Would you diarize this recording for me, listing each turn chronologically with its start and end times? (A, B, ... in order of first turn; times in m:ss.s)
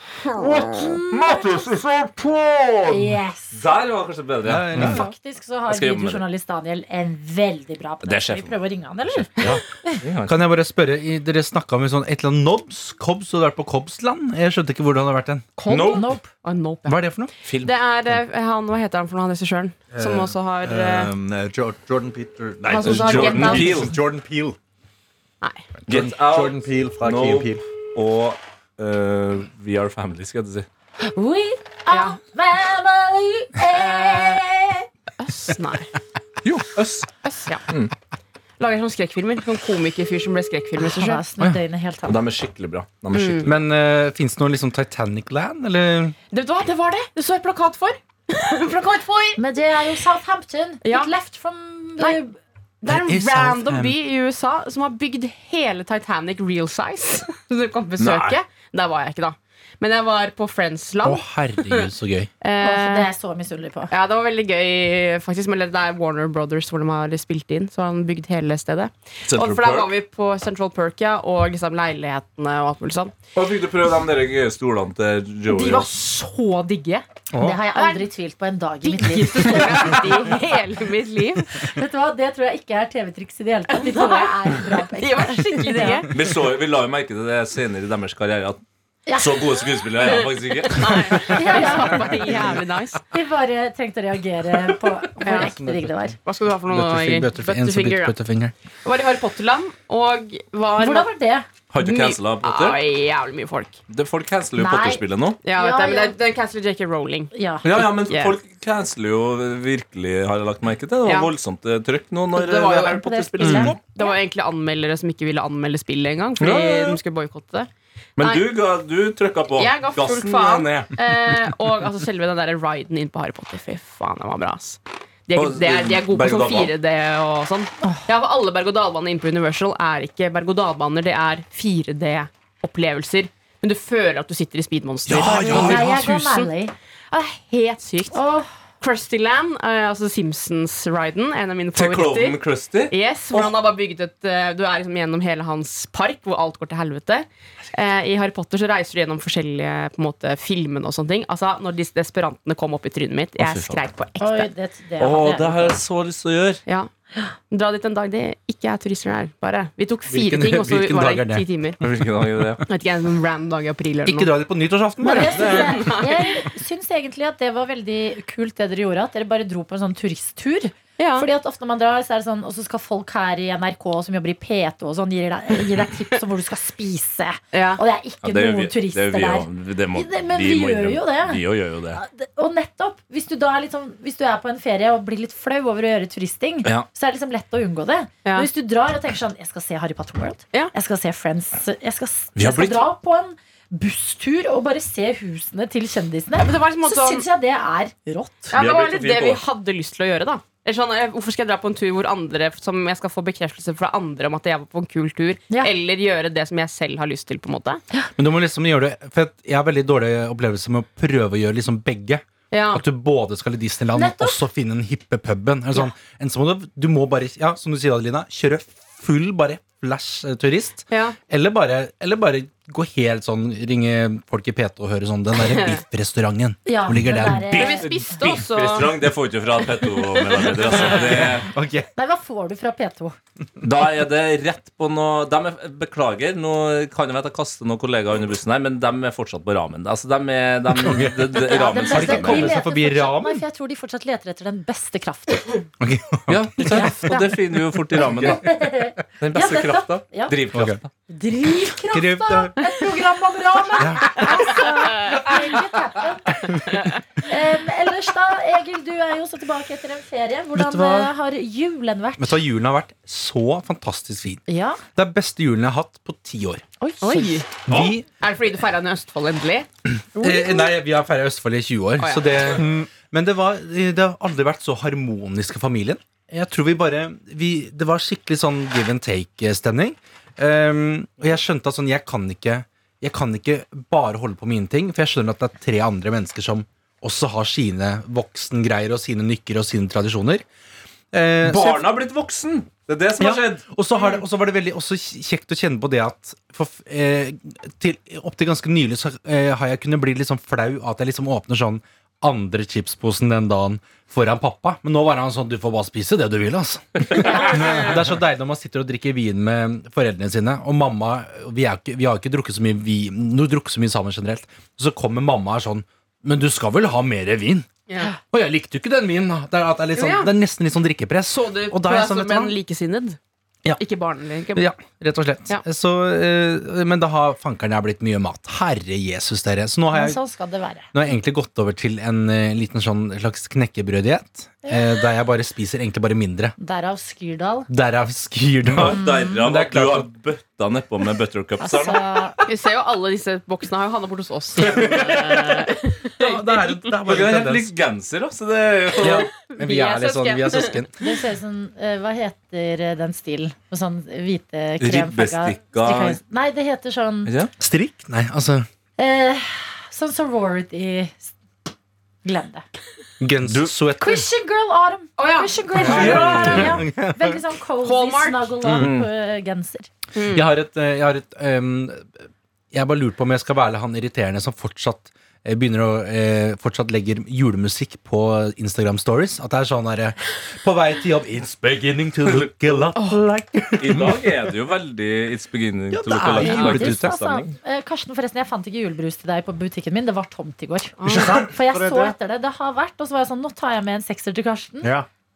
0:00.3-0:05.0 A
0:00.8-0:01.6 B
0:02.8-0:03.6 B
0:04.4-0:05.1 C
0:04.8-0:10.0 B
0:05.7-0:06.2 A
0:08.0-0:10.4 A
0:10.2-0:15.5 C
0:15.6-0:17.1 D
0:15.7-0:16.1 A
0:15.8-0:16.3 B
0:16.8-0:17.3 C
0:17.4-0:17.7 A
0:17.6-0:21.1 D
0:19.9-0:24.6 E
0:22.6-0:23.9 D
0:22.8-0:24.0 A
0:25.8-0:27.6 E
0:25.9-0:30.7 A
0:31.0-0:34.9 B
0:31.9-0:32.2 D
0:33.7-0:34.4 D
0:35.2-0:35.9 D
0:36.4-0:37.0 A
0:37.2-0:37.6 D
0:38.6-0:41.2 D
0:40.8-0:42.2 B
0:42.0-0:43.6 A
0:43.1-0:43.5 D
0:43.4-0:46.2 C
0:46.3-0:49.4 D
0:49.4-0:52.4 B
0:50.8-0:51.1 D
0:52.8-1:01.9 D
0:52.9-0:54.0 C
0:58.0-0:58.4 A
1:01.0-1:02.3 C
1:02.4-1:03.1 D
1:02.6-1:03.9 B
1:03.9-1:13.1 D
1:09.3-1:09.9 A
1:13.3-1:15.9 A
1:15.5-1:17.0 D
1:17.3-1:17.6 E
1:17.4-1:20.4 B
1:17.7-1:18.1 D
1:18.8-1:21.7 D
1:21.6-1:26.1 B
1:23.7-1:26.1 D
1:26.1-1:28.6 A
1:29.1-1:29.4 B
1:29.1-1:31.5 A
1:30.0-1:33.0 D
1:31.2-1:32.5 B
1:33.1-1:36.2 B
1:35.2-1:35.5 D
1:35.2-1:36.0 C
1:36.2-1:38.2 D
1:36.7-1:38.5 C
1:38.8-1:41.1 D
1:40.8-1:41.5 B
1:41.7-1:42.8 A
1:41.8-1:43.8 D
1:43.9-1:45.4 A
1:44.6-1:46.1 B
1:45.4-1:48.4 D
1:47.3-1:47.7 B
1:47.6-1:53.8 A
1:51.0-1:51.3 D
1:52.3-1:58.5 D
1:52.8-1:54.1 B
1:53.4-1:53.7 C
1:56.4-1:57.0 A
1:58.2-2:00.9 A
1:59.6-2:16.0 D
2:05.3-2:06.7 A
2:15.1-2:16.1 A
2:15.1-2:16.5 C
2:15.4-2:16.7 B
2:17.1-2:18.2 D
2:18.1-2:18.5 B
2:18.8-2:34.5 D
2:21.8-2:23.5 A
2:33.4-2:33.8 A
2:34.2-2:35.8 B
2:35.0-2:36.6 A
2:37.5-2:41.8 D
2:40.1-2:42.0 C
2:41.8-2:42.6 A
2:42.7-2:44.3 D
2:44.0-2:46.0 C
2:45.0-3:01.4 B
2:45.1-2:46.4 D
2:51.0-2:51.3 D
2:57.5-2:57.8 D
2:58.2-3:02.0 A
3:02.0-3:18.5 B
3:12.4-3:12.9 A
3:16.4-3:17.2 D
3:18.5-3:27.8 D
3:18.5-3:19.4 A
3:28.2-3:47.6 C
3:32.5-3:32.8 D
3:33.9-3:34.4 B
3:40.9-3:41.2 D
3:45.5-3:45.8 D
3:46.6-3:47.9 B
3:47.3-3:51.5 A
3:47.6-3:48.9 D
3:50.8-3:51.9 C
3:52.0-3:53.2 B
3:53.6-4:02.5 A
4:00.8-4:03.4 C
4:01.5-4:05.7 B
4:05.8-4:07.0 C
4:06.3-4:08.4 A
4:06.6-4:07.4 B
4:08.0-4:10.4 B
4:09.2-4:10.9 A
4:10.5-4:10.8 C
4:11.1-4:22.4 B
4:11.9-4:12.5 C
4:13.8-4:14.4 C
4:16.7-4:16.9 D
4:20.5-4:21.1 C
4:22.2-4:26.6 C
4:24.5-4:24.8 B
4:26.8-4:27.4 B
4:27.0-4:27.5 D
4:27.7-4:28.0 C
4:28.2-4:29.7 D
4:29.8-4:50.4 C
4:32.0-4:32.4 D
4:32.6-4:32.9 E
4:51.1-4:51.9 C
4:51.4-4:53.6 A
4:53.2-5:17.7 C
5:07.2-5:08.0 B
5:17.9-5:18.1 D
5:18.2-5:22.5 C
5:20.0-5:20.3 D
5:21.3-5:23.2 D
5:23.8-5:24.7 D
5:24.5-5:30.2 C
5:29.9-5:30.9 B
5:30.9-5:36.5 C
5:36.6-5:37.7 B
5:37.7-5:40.1 C
5:38.7-5:42.2 A
5:38.9-5:39.4 B
5:41.6-5:42.4 B
5:42.4-5:46.7 D
5:44.6-5:45.2 C
5:46.0-5:47.7 C
5:47.0-5:49.3 A
5:49.0-5:50.8 D
5:49.0-5:51.0 C
5:51.0-5:57.3 B
5:54.8-5:56.2 A
5:57.2-5:57.5 A
5:57.6-5:58.7 C
5:59.0-6:01.3 B
6:02.2-6:02.6 B
6:03.2-6:04.3 C
6:04.0-6:09.9 B
6:05.2-6:06.6 D
6:05.8-6:07.5 C
6:07.8-6:08.5 D
6:08.7-6:09.1 A
6:10.1-6:10.5 D
6:10.3-6:12.1 C
6:12.7-6:24.2 C
6:23.0-6:23.2 D
6:23.8-6:27.5 A
6:25.9-6:27.2 C
6:26.3-6:34.9 B
6:31.0-6:31.4 D
6:31.1-6:32.1 E
6:34.8-6:35.1 E